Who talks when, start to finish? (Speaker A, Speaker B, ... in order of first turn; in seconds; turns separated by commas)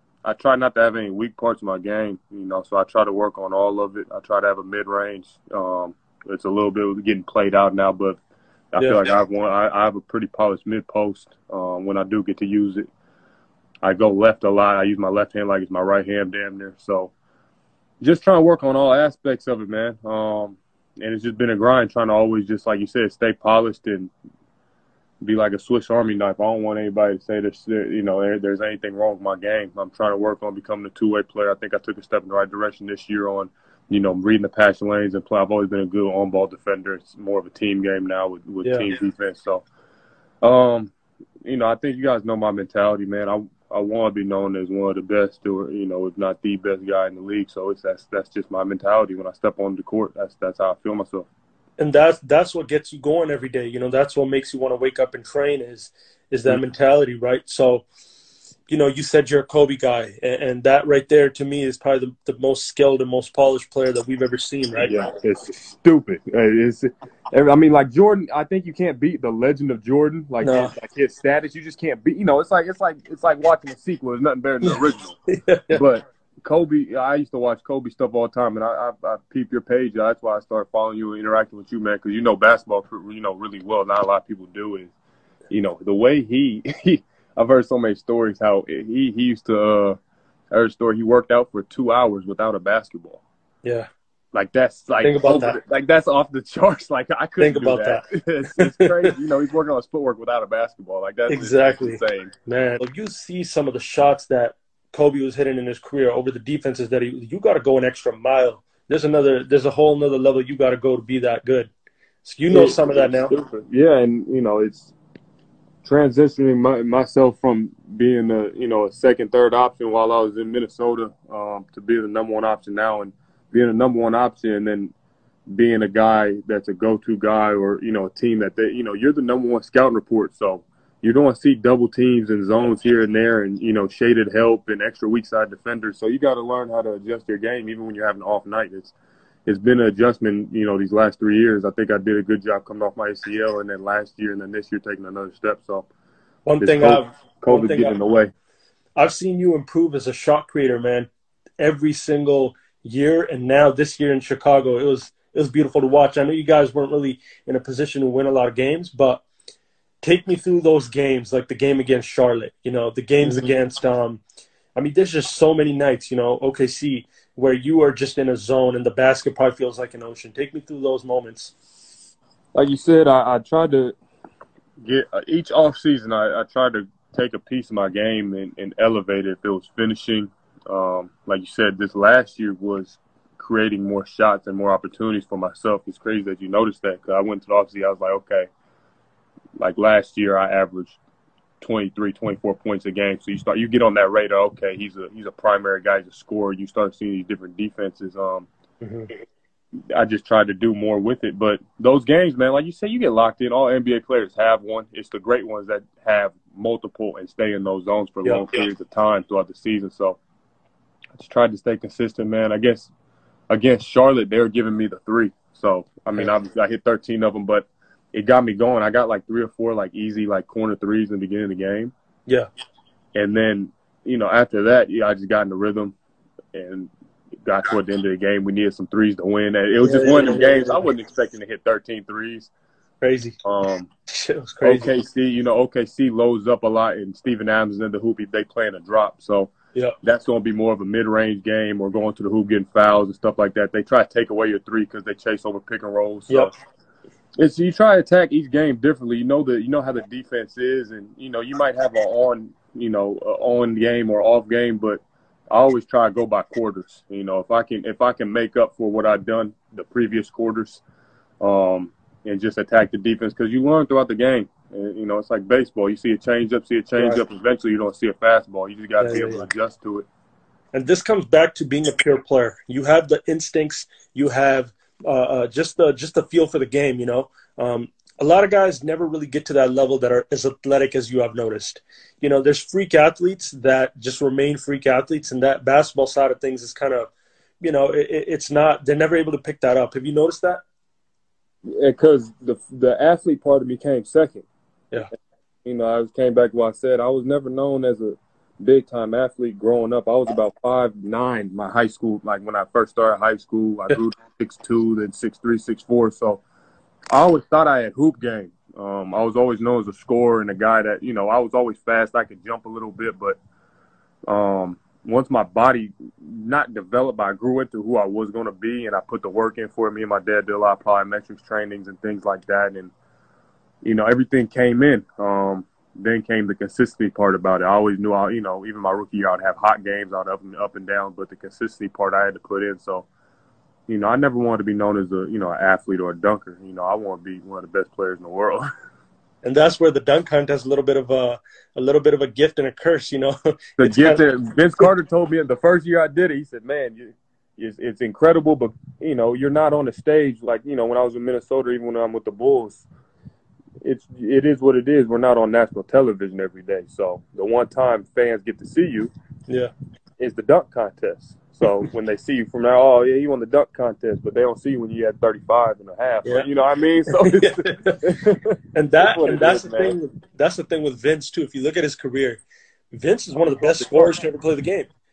Speaker A: 0.2-8.2, Speaker A: 8.7-12.9, Speaker B: 8.8-9.1, Speaker A: 13.8-17.1, Speaker A: 18.0-24.1, Speaker A: 25.2-39.6, Speaker A: 40.4-40.9, Speaker A: 41.4-51.3, Speaker B: 51.8-57.9, Speaker B: 58.7-64.9, Speaker A: 64.8-75.2, Speaker B: 70.4-70.7, Speaker B: 74.6-75.8, Speaker A: 75.7-84.9, Speaker A: 85.5-90.0, Speaker A: 90.5-93.2, Speaker A: 94.3-102.3, Speaker B: 95.0-95.6, Speaker B: 97.4-98.0, Speaker B: 98.6-99.1, Speaker B: 101.3-111.7, Speaker B: 112.2-113.3, Speaker A: 112.5-114.9, Speaker A: 115.8-124.9, Speaker A: 125.5-138.9, Speaker A: 139.4-145.9, Speaker B: 146.4-147.9, Speaker A: 146.6-148.3, Speaker B: 148.9-159.2, Speaker B: 160.0-164.2, Speaker A: 163.2-163.5, Speaker B: 164.8-171.5, Speaker A: 172.5-173.9, Speaker A: 174.8-188.5, Speaker A: 189.6-191.0, Speaker A: 191.6-198.5, Speaker B: 198.8-199.1, Speaker A: 199.9-210.2, Speaker A: 211.1-212.9, Speaker A: 213.5-221.9, Speaker A: 223.1-225.9, Speaker A: 226.5-226.9, Speaker A: 227.4-232.5, Speaker B: 229.8-230.9, Speaker B: 233.0-233.3, Speaker A: 233.4-233.9, Speaker B: 234.1-234.9, Speaker A: 234.6-246.5, Speaker A: 247.4-260.8, Speaker A: 261.4-270.1, Speaker B: 266.9-267.2, Speaker B: 269.0-269.5, Speaker B: 270.7-287.1, Speaker B: 287.6-290.6, Speaker A: 291.6-294.4, Speaker A: 295.6-306.4, Speaker A: 307.1-313.4, Speaker A: 314.3-322.9, Speaker A: 323.8-333.1, Speaker A: 333.9-338.7, Speaker B: 339.4-344.2, Speaker A: 343.8-352.8, Speaker A: 353.8-359.1, Speaker A: 360.2-370.0, Speaker B: 367.1-368.0, Speaker B: 368.7-372.4, Speaker B: 372.9-374.9, Speaker A: 373.4-374.1